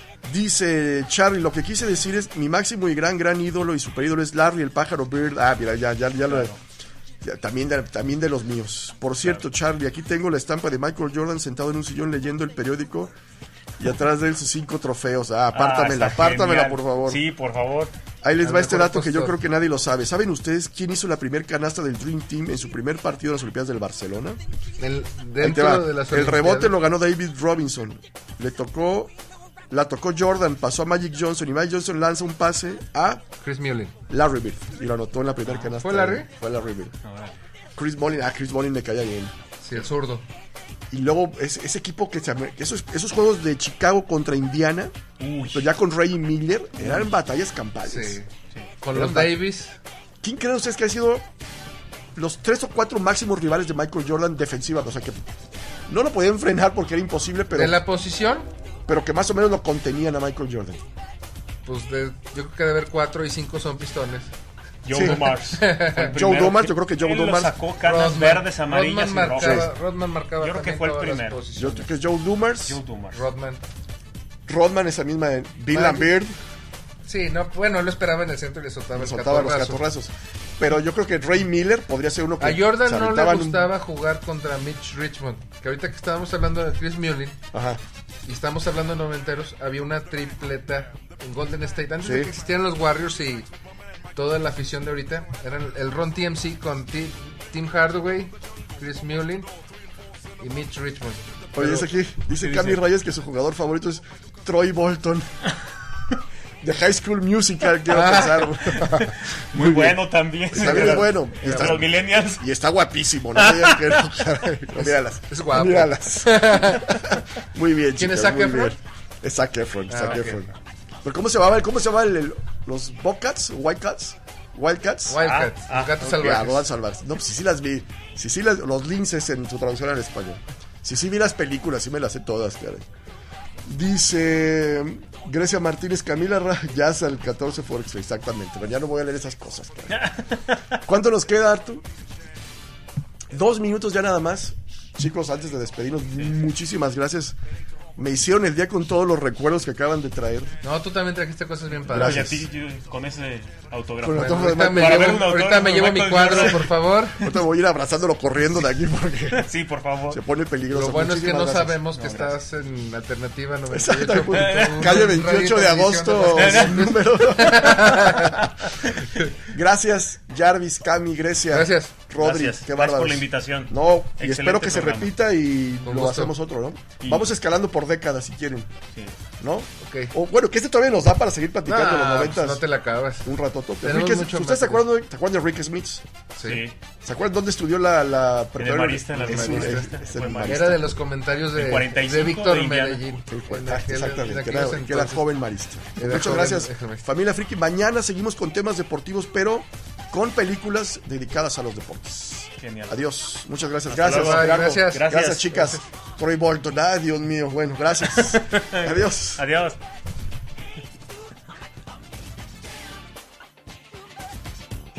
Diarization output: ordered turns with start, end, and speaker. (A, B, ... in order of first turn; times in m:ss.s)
0:00.2-0:06.5 A
0:06.3-0:06.6 B
0:07.2-0:13.1 A
0:13.8-0:17.2 A
0:15.5-0:17.9 B
0:18.2-0:24.4 A
0:18.4-0:19.4 C
0:24.8-0:26.8 C
0:25.4-0:29.1 A
0:29.7-0:33.2 A
0:33.4-0:33.9 C
0:34.1-0:36.9 A
0:35.8-0:36.3 C
0:37.0-0:37.4 B
0:37.8-0:39.3 A
0:39.6-0:40.2 C
0:40.9-0:44.9 A
0:45.2-0:45.7 B
0:45.5-0:48.2 A
0:47.8-0:48.3 C
0:48.8-0:49.8 C
0:48.9-0:49.4 A
0:50.2-0:51.2 A
0:52.1-0:55.2 A
0:55.9-0:57.8 A
0:57.5-0:58.5 C
0:58.9-1:00.8 A
1:01.6-1:04.3 C
1:04.8-1:09.7 B
1:04.9-1:05.2 A
1:05.0-1:06.2 C
1:06.0-1:07.6 A
1:07.8-1:11.9 C
1:10.4-1:11.4 B
1:11.6-1:12.8 A
1:12.7-1:13.2 B
1:13.1-1:13.6 C
1:14.5-1:16.3 A
1:15.7-1:16.1 C
1:17.0-1:19.8 C
1:18.9-1:23.7 A
1:22.4-1:27.4 C
1:27.5-1:27.8 A
1:28.2-1:33.5 C
1:32.0-1:32.3 A
1:34.1-1:39.5 C
1:40.4-1:41.8 C
1:41.6-1:45.3 A
1:42.4-1:42.8 B
1:46.6-1:50.0 A
1:47.9-1:48.8 C
1:48.9-1:52.4 B
1:50.5-2:00.5 A
1:50.6-1:51.7 C
1:53.4-1:54.3 B
1:54.8-1:57.0 C
1:58.0-1:58.8 C
1:59.9-2:00.5 C
2:01.0-2:05.2 A
2:05.1-2:06.6 C
2:05.2-2:06.0 B
2:06.0-2:12.8 A
2:13.6-2:20.1 A
2:20.8-2:21.8 A
2:23.3-2:27.4 A
2:28.0-2:30.5 A
2:30.6-2:32.3 C
2:31.9-2:32.4 A
2:31.9-2:36.7 B
2:34.0-2:35.3 A
2:34.1-2:37.2 C
2:37.2-2:39.5 A
2:39.3-2:40.2 B
2:40.1-2:41.8 A
2:40.7-2:48.4 C
2:41.9-2:42.4 B
2:43.7-2:48.5 A
2:44.3-2:45.2 B
2:46.2-2:47.0 B
2:48.4-2:48.7 B
2:49.3-2:58.7 A
2:51.5-2:51.9 C
2:52.2-2:55.1 B
2:55.8-2:56.3 C
2:57.0-2:57.3 B
2:59.4-3:02.6 A
2:59.8-3:00.1 C
3:01.6-3:03.3 C
3:03.2-3:06.0 A
3:03.8-3:04.8 C
3:06.3-3:06.6 C
3:06.4-3:06.8 B
3:07.0-3:11.0 A
3:08.6-3:10.8 B
3:09.2-3:09.9 C
3:10.4-3:15.3 C
3:11.5-3:13.0 B
3:13.3-3:29.4 A
3:16.0-3:17.0 C
3:22.6-3:23.0 B
3:23.9-3:25.8 B
3:24.1-3:25.6 C
3:28.1-3:29.8 B